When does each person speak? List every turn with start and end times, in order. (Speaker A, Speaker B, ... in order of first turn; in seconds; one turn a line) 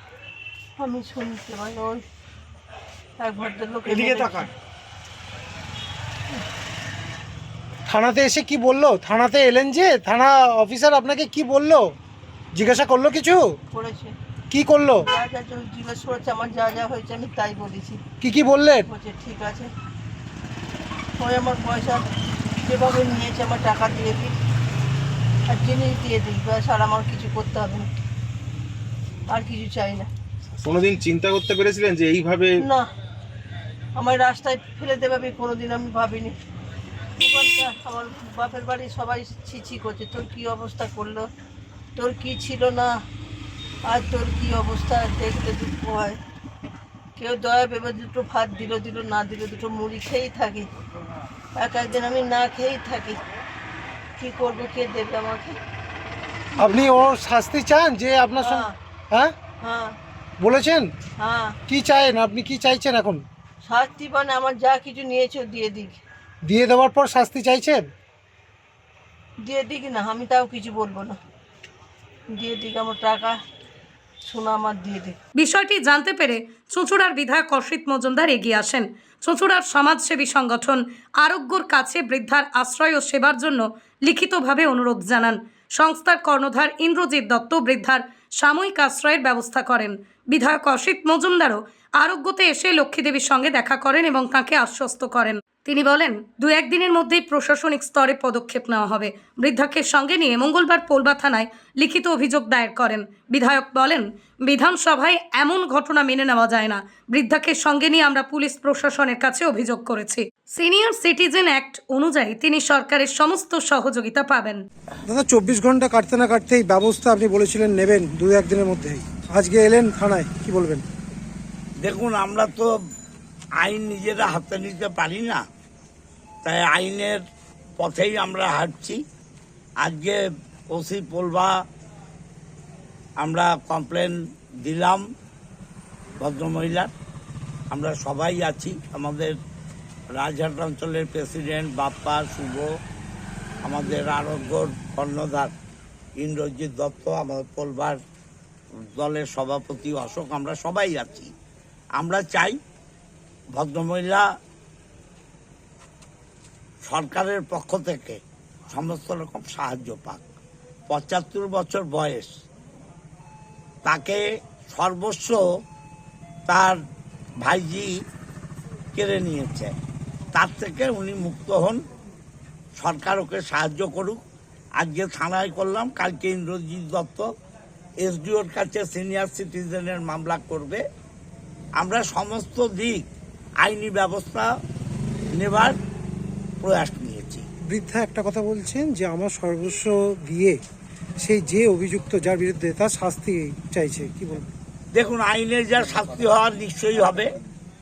Speaker A: 0.8-2.0
Speaker A: 3.2-4.5
Speaker B: 7.9-11.8
Speaker B: 12.6-13.5
Speaker A: 13.7-14.1
Speaker B: 14.5-15.1
Speaker A: 15.1-18.0
Speaker B: 18.2-18.9
Speaker A: 18.9-19.7
Speaker A: 21.2-22.0
Speaker A: 22.6-24.3
Speaker A: 25.5-27.9
Speaker A: 29.3-30.1
Speaker C: 30.6-32.6
Speaker A: 34.0-36.3
Speaker A: 37.2-41.2
Speaker A: 42.0-42.9
Speaker A: 43.8-46.2
Speaker A: 47.1-50.7
Speaker A: 51.5-53.2
Speaker A: 54.2-55.5
Speaker B: 56.6-59.3
Speaker A: 58.4-58.7
Speaker A: 59.6-60.0
Speaker B: 60.4-60.9
Speaker A: 61.2-61.5
Speaker B: 61.7-63.2
Speaker A: 63.6-66.0
Speaker B: 66.5-67.8
Speaker A: 69.4-71.2
Speaker A: 72.3-73.4
Speaker A: 74.2-75.2
Speaker D: 75.3-114.6
Speaker B: 115.0-120.8
Speaker E: 121.8-122.7
Speaker E: 123.6-125.4
Speaker E: 126.4-127.2
Speaker E: 127.8-129.0
Speaker E: 129.8-131.6
Speaker E: 133.2-135.0
Speaker E: 136.2-136.9
Speaker E: 137.7-139.4
Speaker E: 140.1-142.7
Speaker E: 143.6-145.5
Speaker E: 146.2-148.0
Speaker E: 148.8-151.3
Speaker E: 152.0-152.6
Speaker E: 153.5-154.2
Speaker E: 156.8-160.2
Speaker E: 160.9-162.3
Speaker E: 163.8-165.4
Speaker E: 166.5-166.8
Speaker E: 167.4-167.9
Speaker E: 168.9-169.7
Speaker E: 170.3-171.8
Speaker E: 172.8-174.2
Speaker E: 174.8-177.3
Speaker E: 178.0-180.8
Speaker E: 181.8-183.1
Speaker E: 183.6-184.5
Speaker E: 185.3-185.8
Speaker E: 186.6-187.4
Speaker B: 187.7-190.6
Speaker B: 191.2-194.5
Speaker E: 194.9-197.3